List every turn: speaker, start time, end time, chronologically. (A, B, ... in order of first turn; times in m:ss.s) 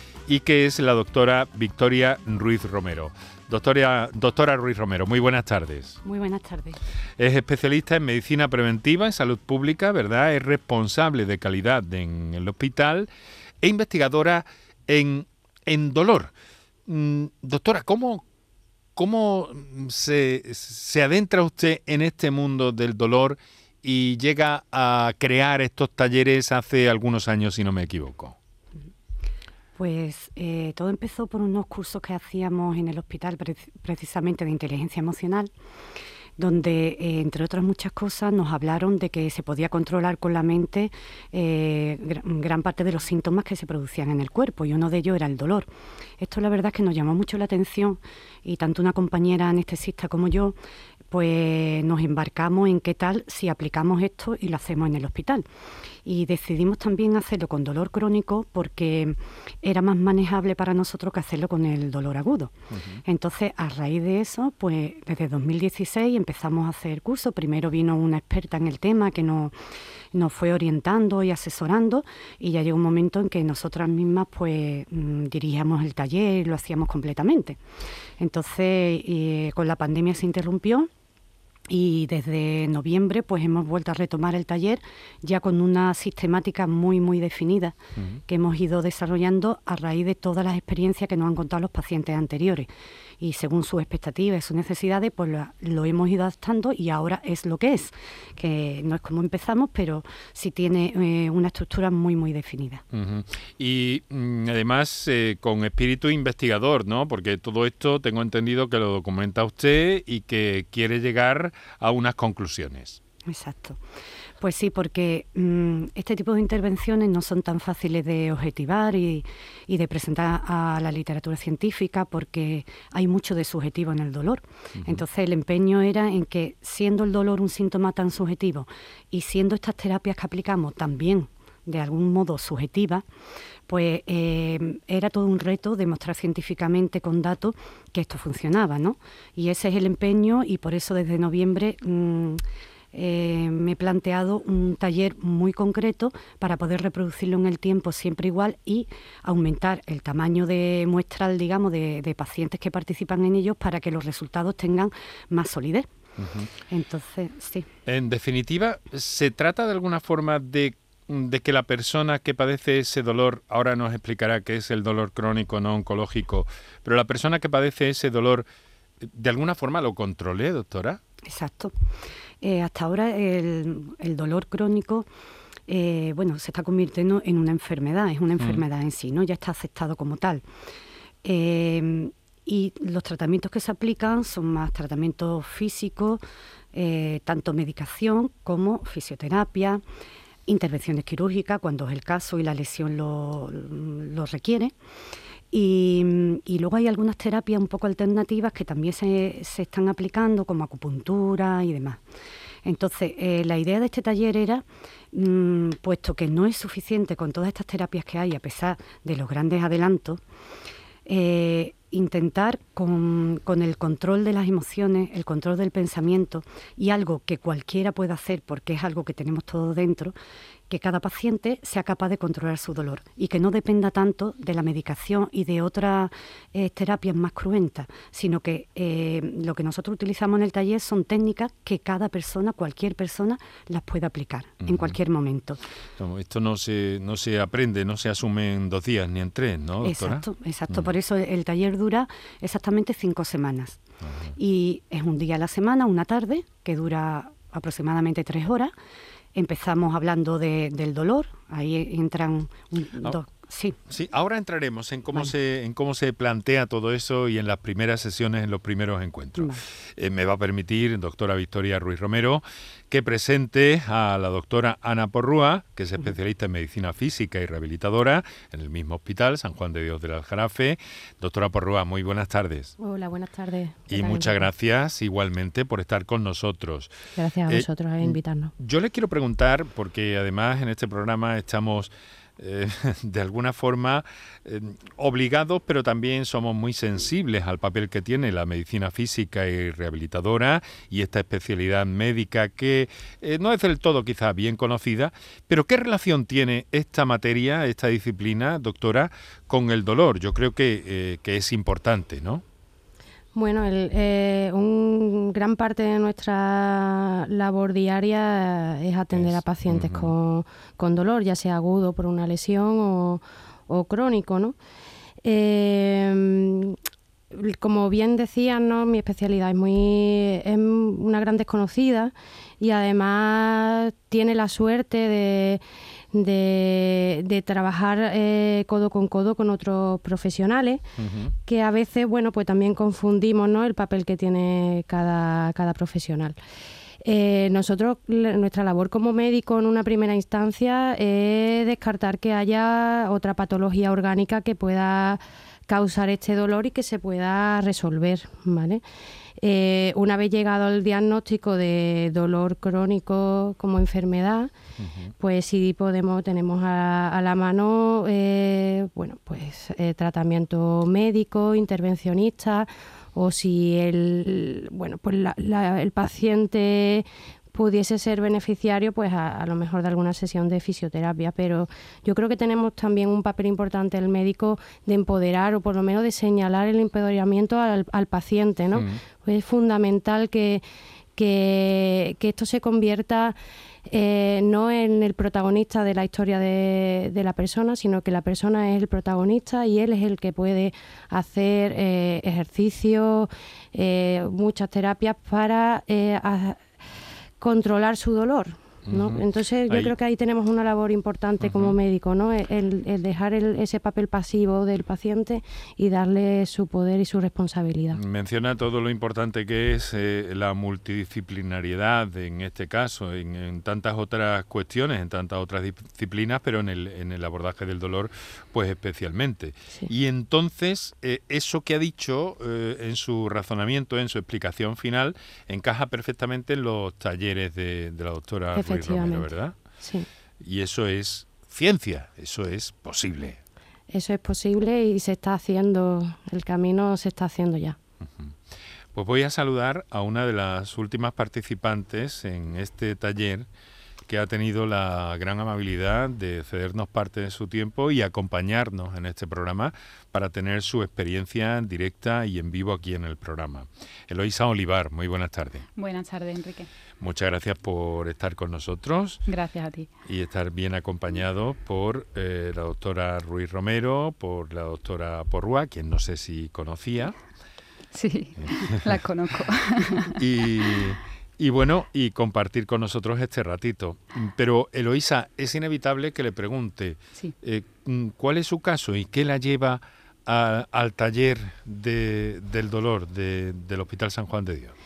0:00.3-0:06.0 A
0:06.0-0:06.8 B
0:07.2-0:13.1 A
0:13.6-0:16.3 A
0:16.9-0:18.2 A
0:19.0-0:28.4 A
0:29.8-0:35.5 B
0:36.4-0:50.6 B
0:51.1-0:55.5 B
0:56.0-1:09.6 B
1:02.7-1:03.0 A
1:10.1-1:17.6 B
1:18.2-1:20.9 B
1:21.7-1:42.8 B
1:42.9-1:53.0 A
1:53.2-1:53.8 B
1:54.4-2:13.0 B
2:04.8-2:05.0 A
2:13.7-2:22.4 B
2:22.9-2:35.9 B
2:36.2-2:36.5 A
2:36.7-2:37.7 B
2:37.9-2:48.5 A
2:49.0-2:51.0 A
2:51.2-2:51.8 B
2:52.4-2:55.1 B
2:55.7-3:00.4 B
2:58.4-2:58.6 A
3:01.2-3:06.2 B
3:06.7-3:09.8 B
3:10.5-3:14.7 B
3:15.5-3:22.0 B
3:22.6-3:30.2 B
3:31.1-3:40.2 B
3:40.7-3:55.6 B
3:54.6-3:55.0 A
3:56.0-4:00.9 A
3:59.8-4:03.8 B
4:04.0-4:04.4 A
4:04.4-4:08.7 B
4:09.3-4:13.8 B
4:13.9-4:32.8 A
4:32.8-4:34.5 C
4:33.9-4:36.9 A
4:37.2-4:38.5 C
4:37.5-5:02.4 A
5:03.3-5:14.6 C
5:09.1-5:10.1 A
5:15.2-5:16.8 C
5:17.3-5:30.9 C
5:31.0-5:31.3 A
5:31.4-5:36.4 C
5:37.0-5:48.8 C
5:49.4-5:54.5 C
5:54.8-5:55.1 A
5:55.2-6:20.6 C
6:18.7-6:19.0 A
6:21.2-6:36.7 C
6:37.4-6:48.0 C
6:38.9-6:40.0 A
6:41.4-6:41.8 A
6:47.9-7:09.6 A
7:08.5-7:10.1 C
7:10.4-7:13.4 A
7:13.9-7:17.8 C
7:18.0-7:18.4 A
7:18.9-7:23.5 A
7:24.1-7:35.7 A
7:35.8-7:36.7 D
7:37.0-7:39.2 A
7:39.3-7:39.9 D
7:40.1-7:47.2 A
7:47.9-7:50.1 D
7:48.5-7:48.9 A
7:50.0-8:04.8 A